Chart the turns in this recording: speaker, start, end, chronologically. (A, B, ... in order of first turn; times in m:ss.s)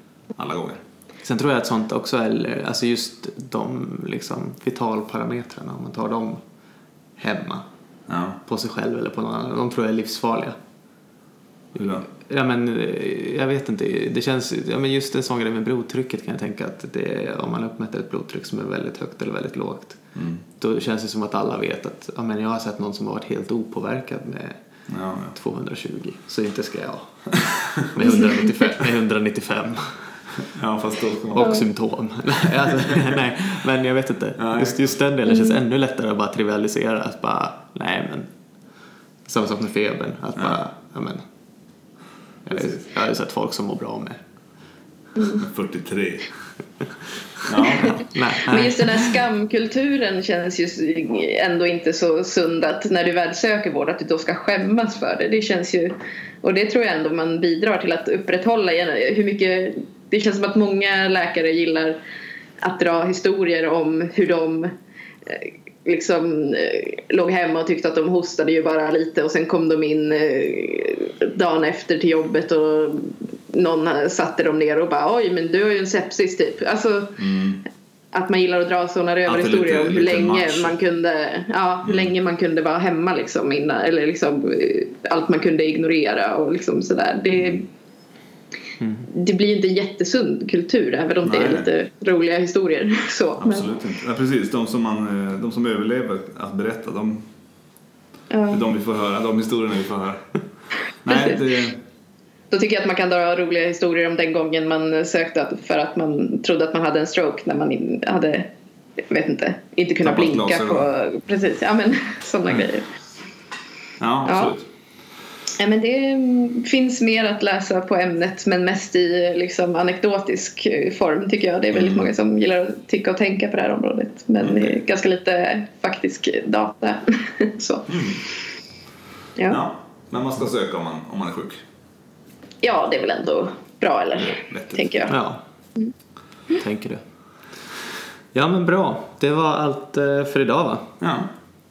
0:00.4-0:00.8 A
0:01.2-0:06.4 B
0:07.2-0:07.6 B
0:08.1-0:08.4 A
0:08.5-0:10.6 B
0:11.7-0:12.1 A
0:12.1-0:20.0 B
0:20.2-0:20.4 A
0:20.6-0:24.6 B
0:24.9-0:25.4 A
0:25.4-0:30.2 B
0:28.1-0:28.5 C
0:30.5-0:31.7 A
0:31.3-0:38.3 B
0:34.4-0:34.9 A
0:39.3-0:41.2 B
0:42.4-0:44.2 B
0:42.5-0:42.8 A
0:45.2-0:45.4 C
0:45.4-0:46.3 A
0:47.4-0:48.1 A
0:47.8-0:49.1 B
0:48.4-1:02.0 C
1:02.6-1:04.7 C
1:05.3-1:17.2 C
1:17.2-1:17.6 A
1:18.1-1:27.7 C
1:19.3-1:20.8 A
1:28.8-1:29.1 B
1:29.0-1:33.7 C
1:31.2-1:31.7 A
1:33.4-1:37.2 A
1:38.3-1:38.6 C
1:38.5-1:40.3 A
1:41.0-1:41.8 A
1:41.1-1:41.4 C
1:42.5-1:48.5 C
1:49.1-1:52.9 C
1:50.0-1:50.9 A
1:54.0-1:54.7 A
1:54.2-1:54.6 C
1:55.6-2:08.0 C
2:01.7-2:02.1 A
2:04.4-2:04.8 A
2:07.9-2:08.2 A
2:09.5-2:11.6 A
2:12.6-2:15.2 C
2:14.2-2:15.0 A
2:15.1-2:15.4 B
2:16.6-2:17.0 B
2:18.3-2:21.0 B
2:21.0-2:21.3 A